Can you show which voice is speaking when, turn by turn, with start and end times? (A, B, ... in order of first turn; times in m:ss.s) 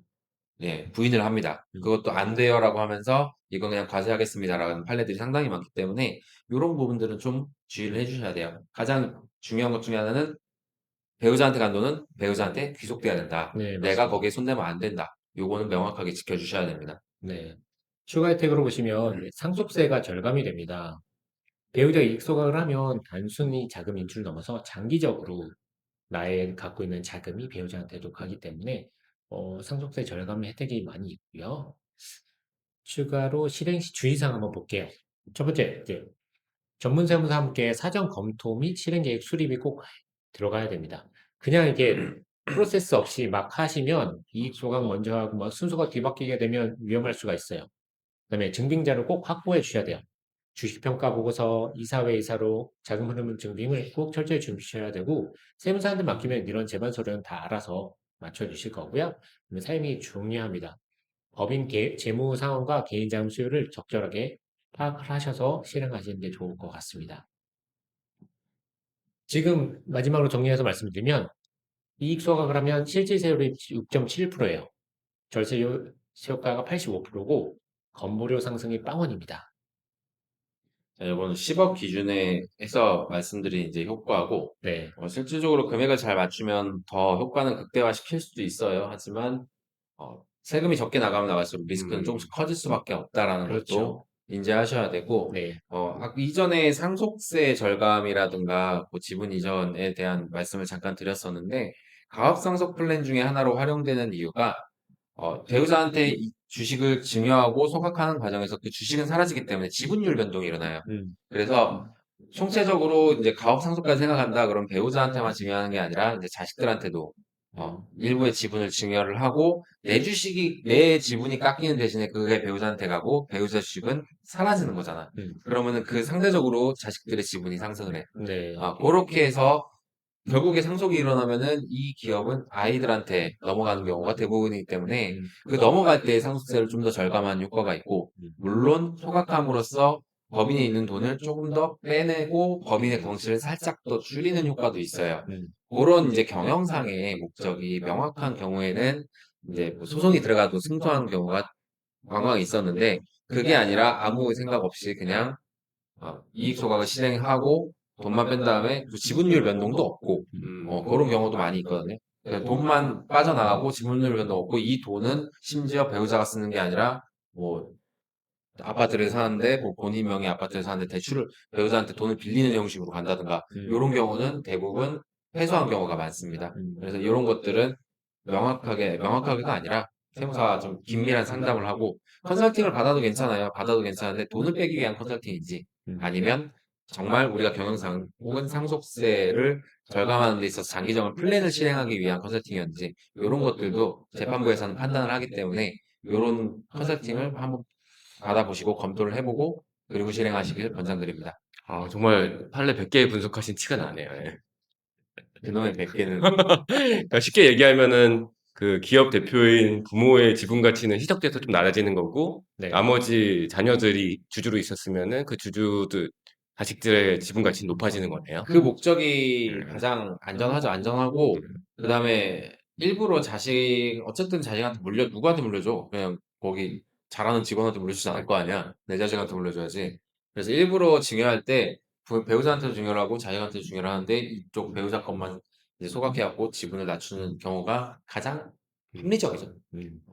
0:00.6-0:10.4 A
0:11.2-0:17.0 A
0:13.5-0:14.3 B
0:17.2-0:21.0 B
0:21.7-0:25.6 B
0:26.1-0:31.8 B
0:32.8-0:36.1 B
0:36.8-0:47.7 B
0:48.3-1:00.8 B
1:01.3-1:07.2 B
1:09.3-1:11.3 B
1:12.0-1:14.7 B
1:15.3-1:19.5 B
1:21.0-2:09.7 A
1:24.6-1:25.0 B
1:33.5-1:34.0 B
1:35.3-1:35.6 B
1:50.8-1:51.2 B
1:57.6-1:57.8 B
2:05.1-2:05.4 B
2:08.2-2:08.7 B
2:10.3-2:31.5 A
2:15.1-2:15.3 B
2:22.8-2:23.1 B
2:25.3-2:25.5 B
2:32.1-2:35.4 A
2:36.0-2:47.8 A
2:48.6-3:17.7 A
2:53.5-2:53.8 B
2:56.6-2:56.9 B
3:18.2-3:21.4 A
3:21.7-3:24.4 C
3:25.4-3:26.3 A
3:26.2-3:38.5 C
3:32.6-3:32.8 B
3:38.4-3:59.6 A
3:39.5-3:39.8 C
3:59.7-4:00.0 B